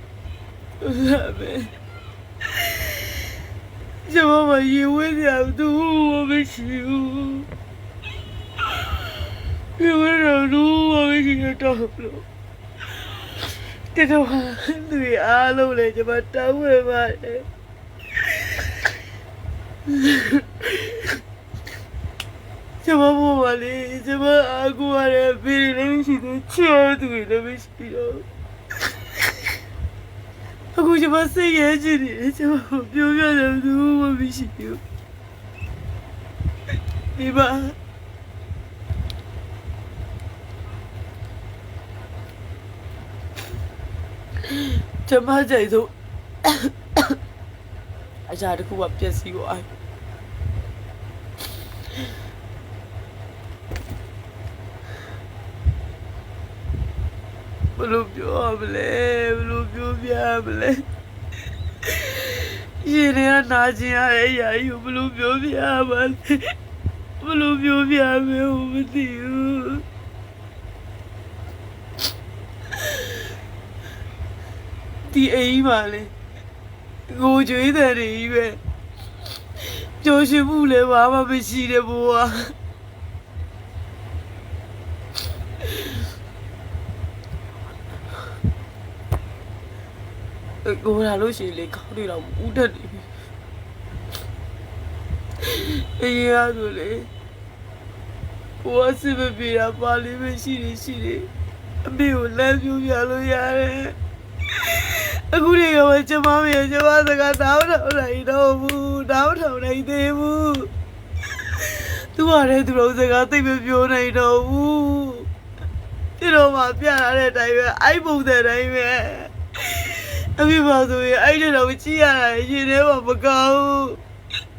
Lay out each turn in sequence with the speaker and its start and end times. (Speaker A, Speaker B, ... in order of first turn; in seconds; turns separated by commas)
Speaker A: 0.8-1.7, Speaker A: 2.6-3.0, Speaker A: 4.0-7.5, Speaker A: 9.8-12.2, Speaker A: 13.9-17.4, Speaker A: 19.9-21.1, Speaker A: 22.8-28.2, Speaker A: 30.7-34.8, Speaker A: 37.1-37.8, Speaker A: 44.5-45.9, Speaker A: 46.4-47.1, Speaker A: 48.3-49.6, Speaker A: 57.8-60.8, Speaker A: 61.8-66.4, Speaker A: 67.2-69.8, Speaker A: 72.8-73.1, Speaker A: 75.1-76.1, Speaker A: 77.1-78.6, Speaker A: 80.0-82.4, Speaker A: 90.6-93.0, Speaker A: 95.4-97.1, Speaker A: 98.6-101.3, Speaker A: 101.8-103.9, Speaker A: 104.5-110.7, Speaker A: 111.5-115.3, Speaker A: 116.2-124.0